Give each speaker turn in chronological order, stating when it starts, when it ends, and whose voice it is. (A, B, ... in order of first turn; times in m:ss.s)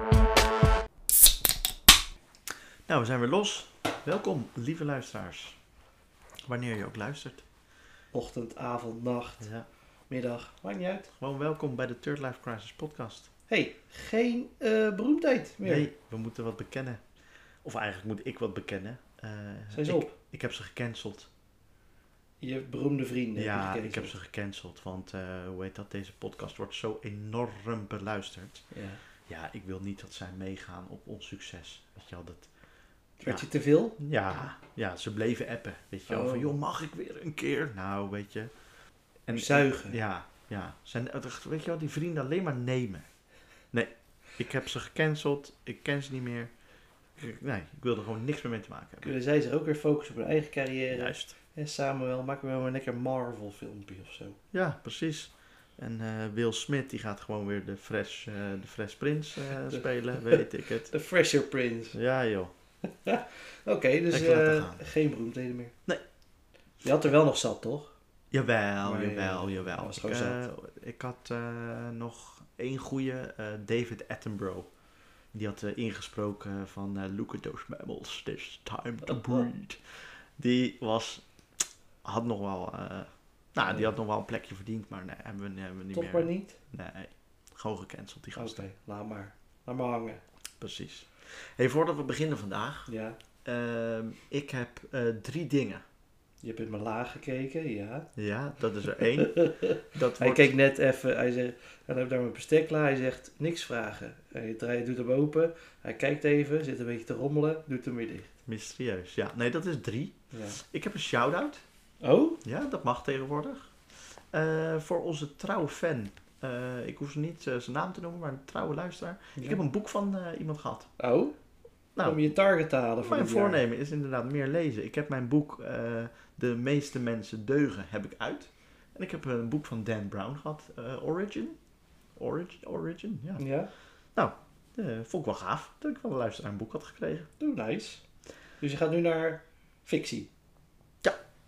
0:02.9-0:05.6 A
0:06.4-0:07.4 A
0:08.1-0:09.5 B
0:09.4-0:09.6 A
0:10.1-0:11.1 B
0:11.2-0:13.3 A
0:13.5-0:15.9 B
0:15.6-0:17.0 A
0:17.6-0:21.3 A
0:19.7-0:20.1 B
0:22.4-0:24.1 B
0:23.4-0:28.6 A
0:28.7-0:29.0 B
0:29.3-0:32.5 A
0:33.2-0:34.0 B
0:34.0-0:38.5 A
0:36.1-0:36.5 B
0:39.3-0:43.0 A
0:39.3-0:40.0 B
0:43.7-0:46.5 A
0:47.2-0:49.1 A
0:49.0-0:54.4 B
0:50.9-0:51.2 A
0:54.5-1:00.9 A
0:59.5-1:02.0 B
1:01.9-1:02.5 A
1:02.8-1:05.7 B
1:04.1-1:04.8 A
1:06.8-1:07.9 B
1:08.3-1:14.7 A
1:08.8-1:10.4 B
1:15.3-1:19.8 A
1:19.1-1:19.4 B
1:20.4-1:21.2 A
1:22.0-1:28.6 A
1:23.6-1:23.9 B
1:25.9-1:26.6 B
1:28.4-1:30.2 B
1:30.6-1:32.9 A
1:32.9-1:33.2 B
1:33.4-1:35.8 A
1:36.4-1:38.1 B
1:38.2-1:40.5 A
1:39.0-1:48.3 B
1:48.5-1:51.6 A
1:50.3-1:50.6 B
1:52.0-1:52.4 B
1:52.4-1:53.7 A
1:54.3-2:00.9 A
2:01.0-2:01.3 B
2:02.0-2:02.3 A
2:02.0-2:03.6 B
2:03.0-2:11.6 A
2:12.2-2:13.4 A
2:13.4-2:13.7 B
2:14.1-2:17.3 A
2:17.4-2:18.0 B
2:18.6-2:20.3 B